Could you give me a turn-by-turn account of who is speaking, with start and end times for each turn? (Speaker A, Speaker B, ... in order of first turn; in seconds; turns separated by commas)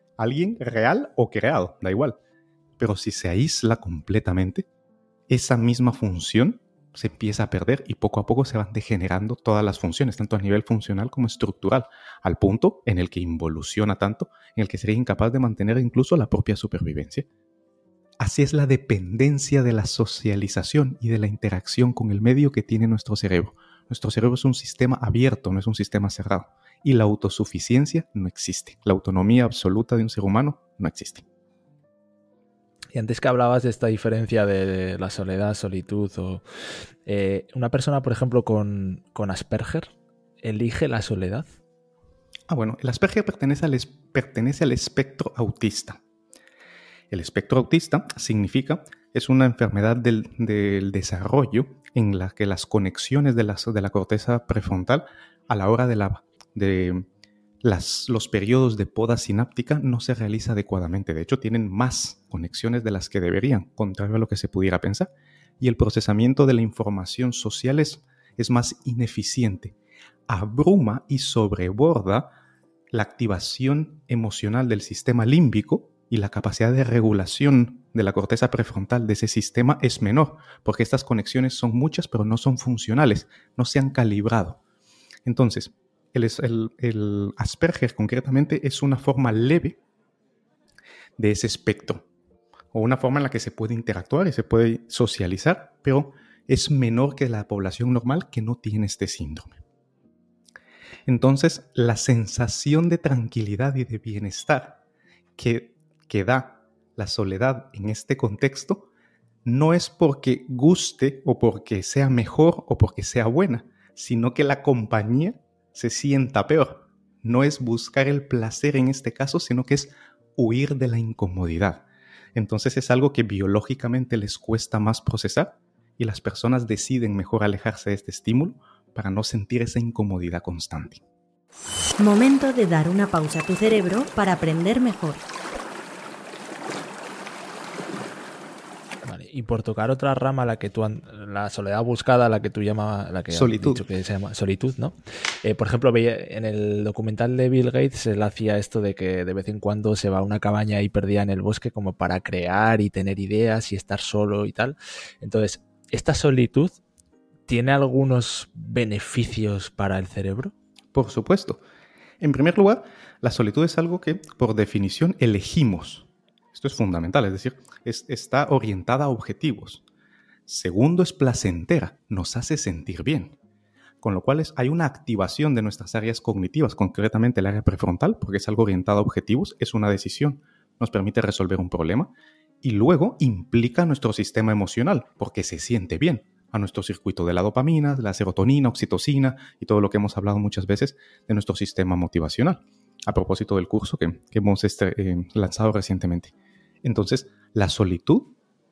Speaker A: 0.2-2.2, Speaker A: 2.8-4.7, Speaker A: 5.3-17.3, Speaker A: 18.2-31.2, Speaker B: 32.9-36.4, Speaker B: 37.0-41.5, Speaker A: 42.5-46.0, Speaker A: 47.1-57.0, Speaker A: 57.6-69.8, Speaker A: 70.3-72.3, Speaker A: 72.9-84.6, Speaker A: 85.2-89.8, Speaker A: 91.2-92.0, Speaker A: 92.7-99.6, Speaker A: 101.1-104.8, Speaker A: 105.4-108.9, Speaker A: 109.4-131.0, Speaker C: 132.0-135.2, Speaker B: 139.0-156.8, Speaker A: 143.3-143.8, Speaker B: 157.5-160.5, Speaker A: 160.9-161.6, Speaker A: 162.2-169.8, Speaker A: 170.4-173.4, Speaker A: 174.0-196.3, Speaker A: 196.8-198.3